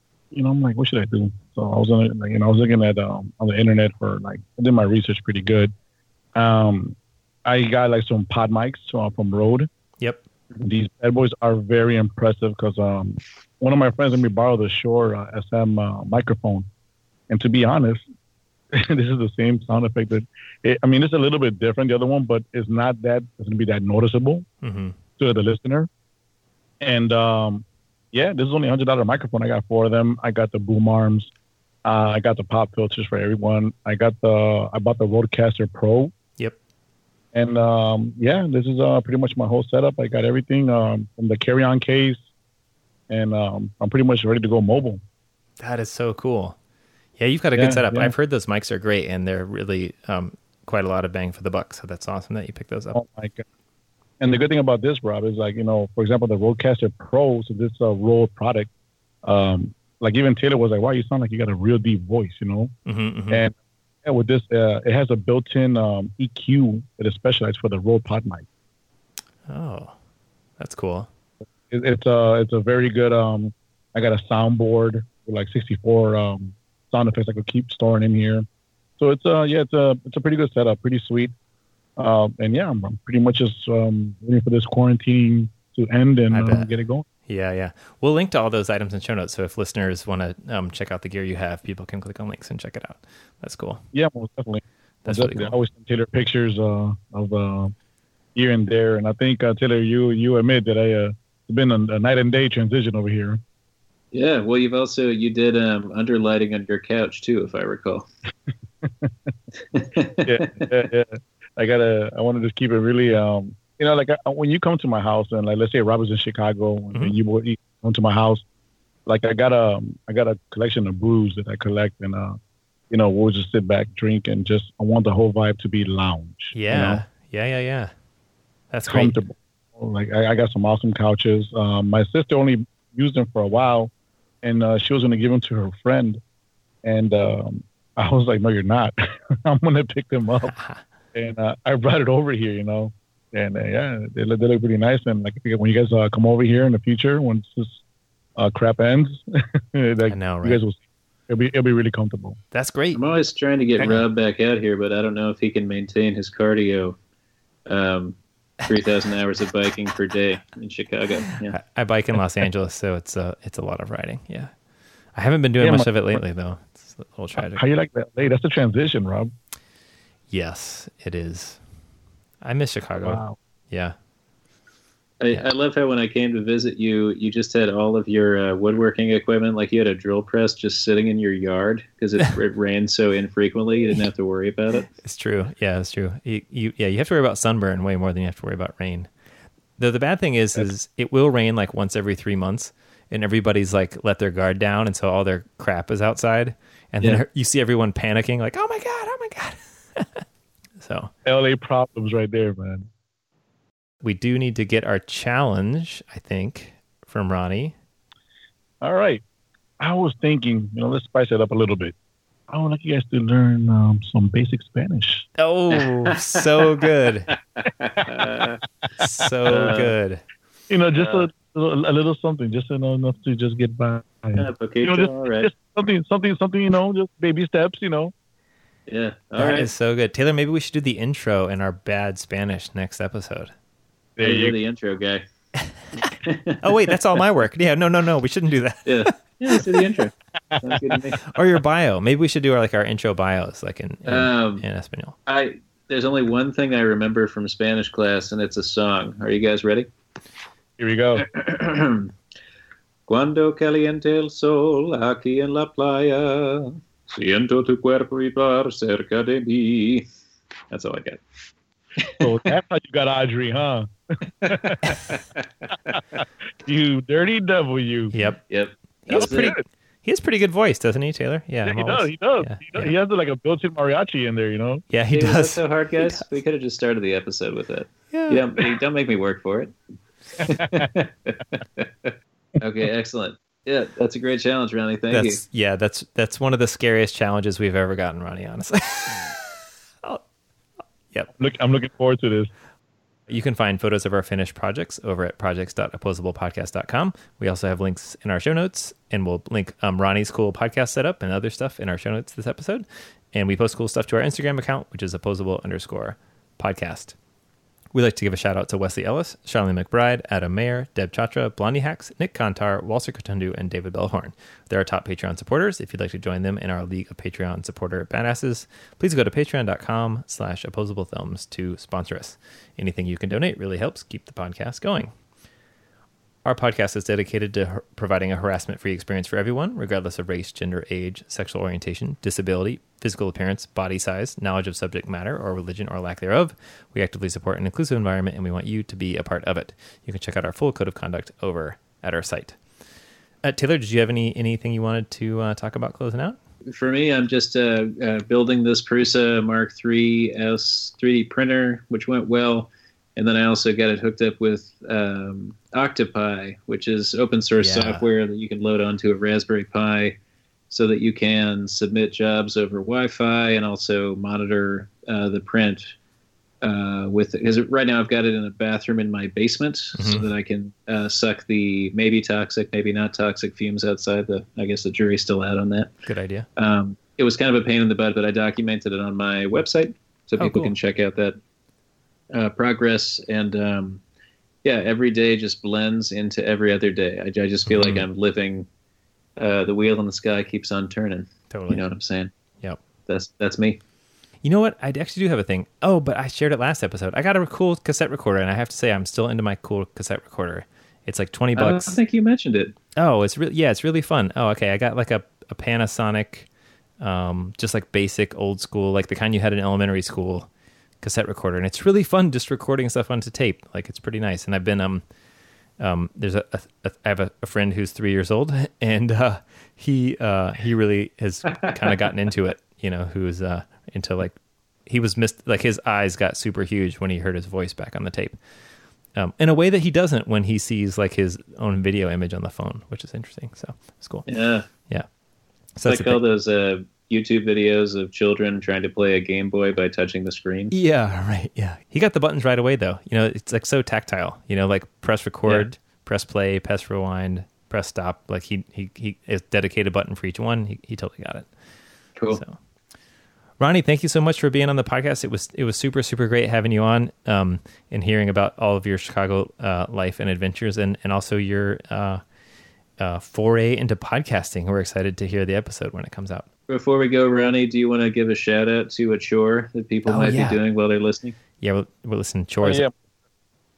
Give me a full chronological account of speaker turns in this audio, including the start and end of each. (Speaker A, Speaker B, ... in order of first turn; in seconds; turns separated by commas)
Speaker A: 0.3-5.7, Speaker A: 6.3-9.7, Speaker A: 10.6-16.6, Speaker A: 17.3-18.0, Speaker A: 18.7-24.5, Speaker B: 24.6-25.0, Speaker A: 25.2-25.9, Speaker A: 26.8-31.3, Speaker A: 31.9-36.1, Speaker A: 37.3-42.2, Speaker A: 43.1-45.0, Speaker B: 45.6-46.6, Speaker B: 47.2-53.0, Speaker A: 47.5-48.1, Speaker A: 52.9-53.4, Speaker A: 54.2-58.7, Speaker A: 59.2-62.7, Speaker B: 62.9-63.4, Speaker A: 63.3-68.5, Speaker B: 69.5-69.9, Speaker B: 70.6-71.1, Speaker A: 71.7-78.4, Speaker A: 79.0-81.3, Speaker A: 82.0-87.1, Speaker B: 86.3-86.7, Speaker B: 87.3-93.8, Speaker A: 93.9-97.7, Speaker B: 95.0-95.5, Speaker A: 98.3-103.4, Speaker C: 104.1-108.1, Speaker A: 108.8-109.1, Speaker C: 109.7-110.6, Speaker A: 110.2-118.4, Speaker A: 119.1-122.4, Speaker A: 122.9-127.0, Speaker B: 126.5-127.9, Speaker B: 128.7-129.1, Speaker A: 128.9-133.9, Speaker A: 134.4-136.2, Speaker A: 136.8-140.5, Speaker B: 140.5-140.8, Speaker A: 141.1-147.8, Speaker A: 148.4-152.4, Speaker B: 150.1-150.6, Speaker B: 152.5-153.0, Speaker C: 152.9-157.0, Speaker C: 157.7-161.6, Speaker B: 161.6-164.5, Speaker B: 165.1-167.6, Speaker A: 165.6-166.2, Speaker A: 167.4-169.3, Speaker B: 170.3-171.6, Speaker B: 172.4-173.9, Speaker A: 173.0-173.4, Speaker C: 175.2-184.9, Speaker B: 185.0-189.1, Speaker B: 189.8-200.2, Speaker B: 200.8-201.1, Speaker A: 201.2-202.9, Speaker B: 204.0-207.7, Speaker A: 208.8-209.2, Speaker A: 209.8-211.9, Speaker A: 212.5-215.3, Speaker B: 215.4-217.3, Speaker C: 215.7-218.6, Speaker B: 219.0-220.2, Speaker C: 219.5-219.9, Speaker A: 220.7-228.1, Speaker C: 221.0-221.3, Speaker C: 224.4-225.5, Speaker C: 228.9-229.7, Speaker B: 229.4-233.5, Speaker A: 234.2-234.6, Speaker C: 234.2-235.2, Speaker C: 236.0-237.0, Speaker B: 236.6-239.8, Speaker C: 238.9-241.2, Speaker B: 241.3-245.2, Speaker C: 244.1-244.6, Speaker C: 245.3-249.9, Speaker A: 250.8-251.2, Speaker C: 251.2-252.1, Speaker C: 253.1-260.1, Speaker C: 260.7-261.2, Speaker C: 262.0-262.3, Speaker A: 262.2-263.9, Speaker A: 264.4-265.0, Speaker C: 264.4-266.0, Speaker A: 266.2-268.1, Speaker B: 268.1-268.4, Speaker C: 268.5-269.6, Speaker B: 269.1-272.9, Speaker A: 269.1-269.6, Speaker A: 271.6-274.8, Speaker B: 274.9-276.2, Speaker C: 275.1-279.7, Speaker B: 278.1-278.4, Speaker C: 280.4-285.4, Speaker A: 280.5-280.9, Speaker B: 285.1-289.5, Speaker A: 291.3-292.5, Speaker B: 293.3-307.1, Speaker B: 307.9-325.1, Speaker B: 326.4-342.6, Speaker B: 343.4-346.4, Speaker C: 346.7-360.1, Speaker B: 357.6-358.0, Speaker C: 360.7-365.9, Speaker C: 366.6-375.9, Speaker B: 370.0-370.3, Speaker B: 376.1-376.5, Speaker C: 376.6-381.4, Speaker B: 380.4-380.7, Speaker C: 382.3-384.0, Speaker C: 384.6-388.7, Speaker B: 387.7-388.1, Speaker C: 389.4-392.3, Speaker B: 391.5-391.8, Speaker C: 393.1-393.8, Speaker B: 394.4-402.0, Speaker C: 401.6-402.8, Speaker B: 403.0-406.5, Speaker B: 407.0-410.5, Speaker B: 411.0-415.0, Speaker B: 415.8-424.4, Speaker B: 424.9-428.4, Speaker B: 429.1-434.3, Speaker C: 434.3-434.7, Speaker B: 435.8-436.2, Speaker C: 435.9-440.7, Speaker B: 440.7-451.5, Speaker B: 453.6-462.2, Speaker B: 463.0-466.5, Speaker C: 466.7-471.4, Speaker B: 470.1-470.6, Speaker B: 471.6-472.9, Speaker A: 472.6-472.9